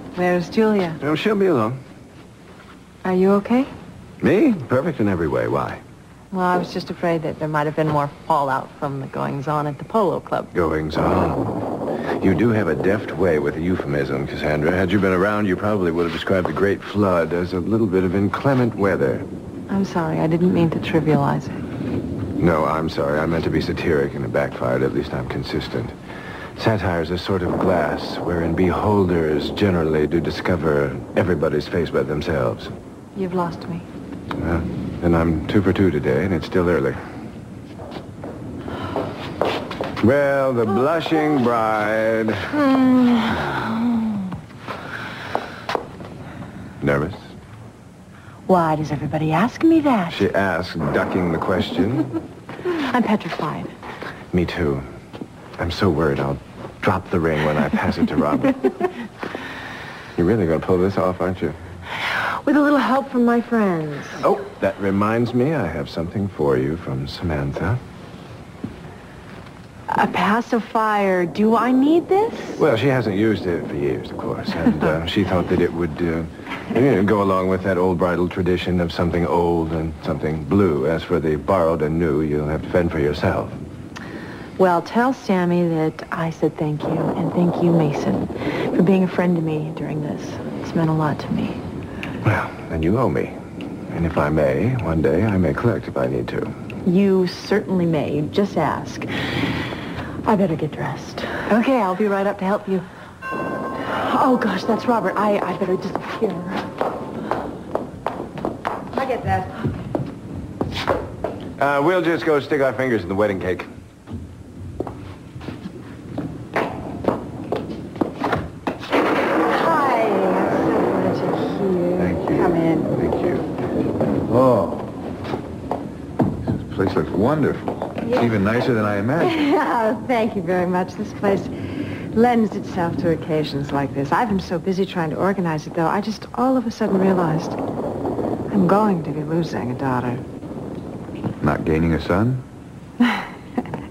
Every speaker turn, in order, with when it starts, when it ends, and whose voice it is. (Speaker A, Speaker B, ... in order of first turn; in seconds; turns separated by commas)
Speaker A: 0.1-1.0, Speaker B: 1.0-1.8, Speaker A: 3.0-3.7, Speaker B: 4.2-5.8, Speaker A: 6.3-10.5, Speaker B: 10.5-11.6, Speaker B: 12.2-19.2, Speaker A: 19.7-21.6, Speaker B: 22.4-25.9, Speaker B: 26.6-32.7, Speaker A: 33.1-33.9, Speaker B: 34.4-37.0, Speaker B: 40.0-42.6, Speaker A: 42.6-43.7, Speaker B: 46.8-47.2, Speaker A: 48.5-50.2, Speaker B: 50.1-52.2, Speaker A: 52.7-53.7, Speaker B: 54.3-54.9, Speaker B: 55.6-58.9, Speaker B: 60.1-61.6, Speaker A: 62.0-64.2, Speaker B: 64.2-67.8, Speaker A: 69.9-72.6, Speaker B: 72.6-83.6, Speaker A: 84.6-91.6, Speaker B: 92.2-93.3, Speaker B: 93.9-96.5, Speaker A: 96.8-99.1, Speaker A: 100.2-102.8, Speaker A: 103.8-106.6, Speaker A: 108.9-109.6, Speaker B: 111.6-113.7, Speaker A: 119.4-123.0, Speaker C: 122.0-123.4, Speaker C: 124.1-124.9, Speaker C: 126.5-129.4, Speaker A: 129.2-131.5, Speaker A: 132.1-137.6, Speaker A: 138.5-140.2, Speaker C: 141.4-142.4, Speaker A: 143.0-143.3